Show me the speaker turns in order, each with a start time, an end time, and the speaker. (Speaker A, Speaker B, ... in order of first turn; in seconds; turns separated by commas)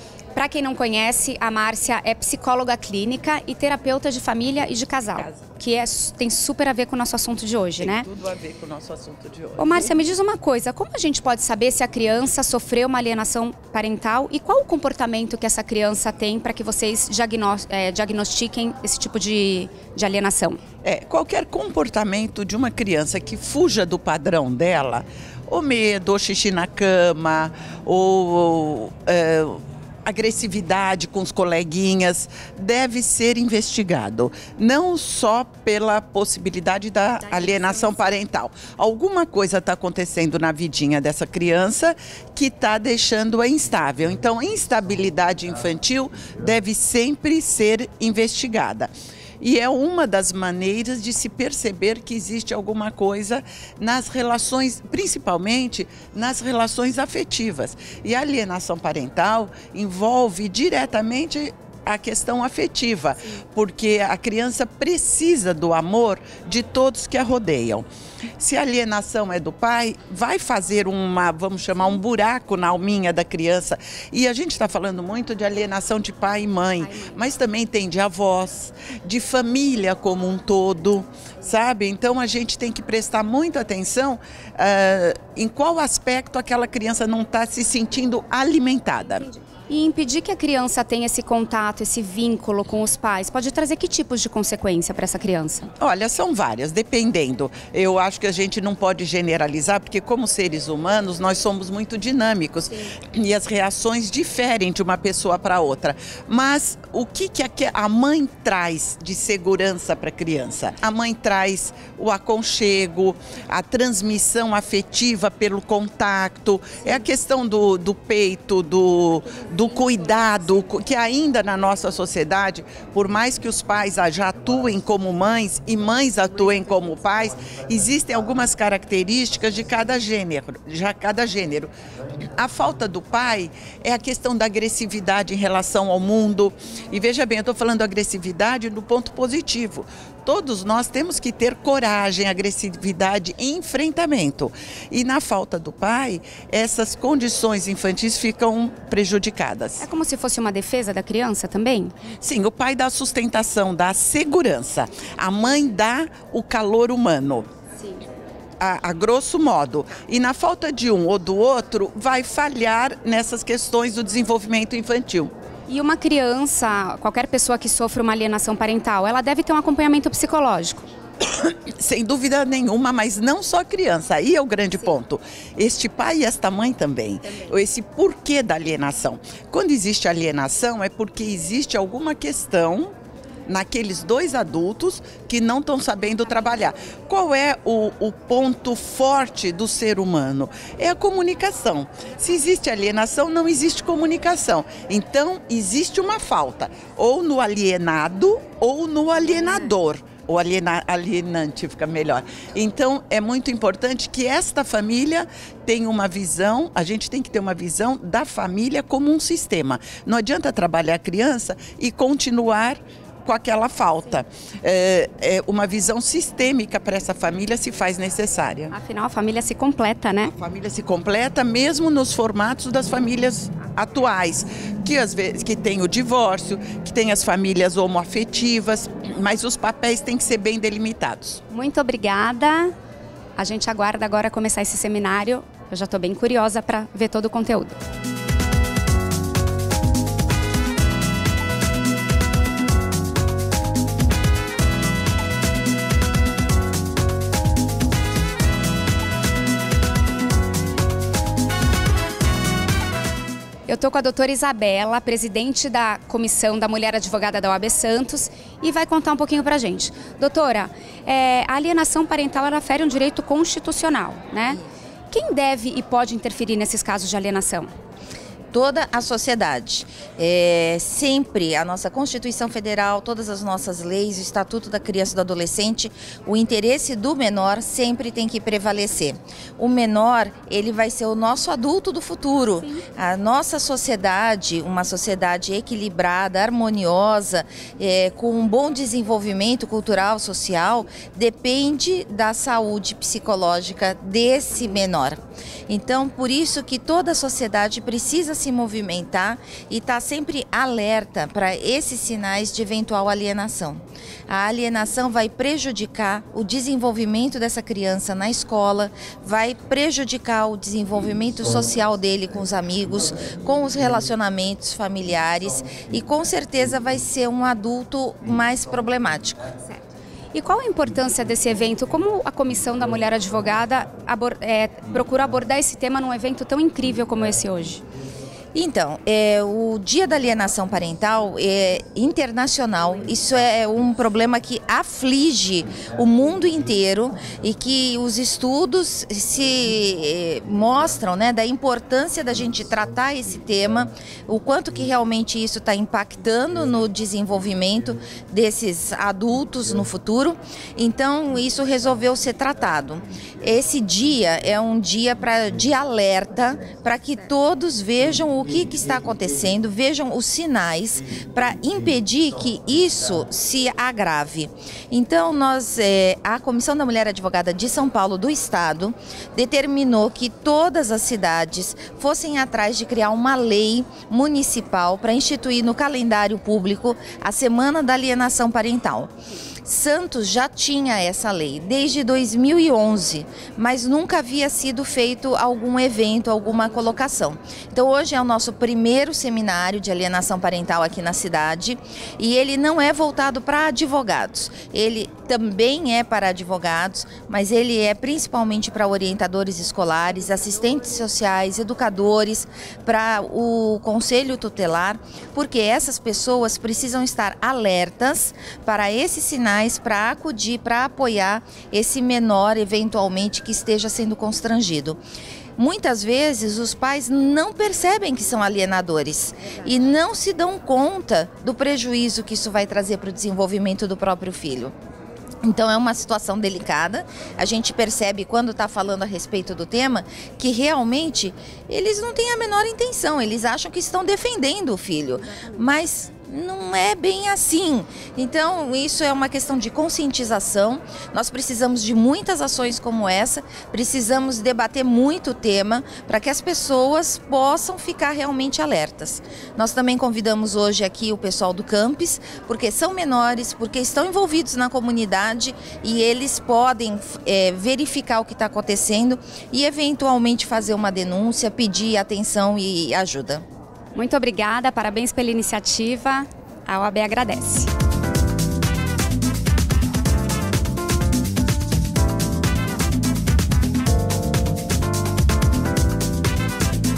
Speaker A: 0.3-8.1, Speaker B: 5.2-5.4, Speaker B: 7.8-10.0, Speaker A: 9.6-20.6, Speaker B: 20.8-67.9, Speaker B: 68.4-89.3, Speaker A: 89.7-95.7, Speaker B: 95.8-131.7, Speaker B: 132.4-149.8, Speaker A: 149.8-151.9, Speaker B: 152.2-157.5, Speaker B: 158.6-165.3, Speaker A: 165.7-170.9, Speaker B: 171.4-182.9, Speaker B: 183.5-218.7, Speaker A: 218.7-220.3, Speaker B: 220.3-231.4, Speaker A: 231.5-232.7, Speaker A: 233.4-237.8, Speaker A: 253.7-264.6, Speaker A: 265.1-267.7, Speaker C: 268.5-319.5, Speaker A: 320.3-327.8, Speaker C: 328.5-379.1, Speaker C: 379.7-415.0, Speaker C: 415.6-424.7, Speaker C: 425.4-463.4, Speaker A: 463.9-467.7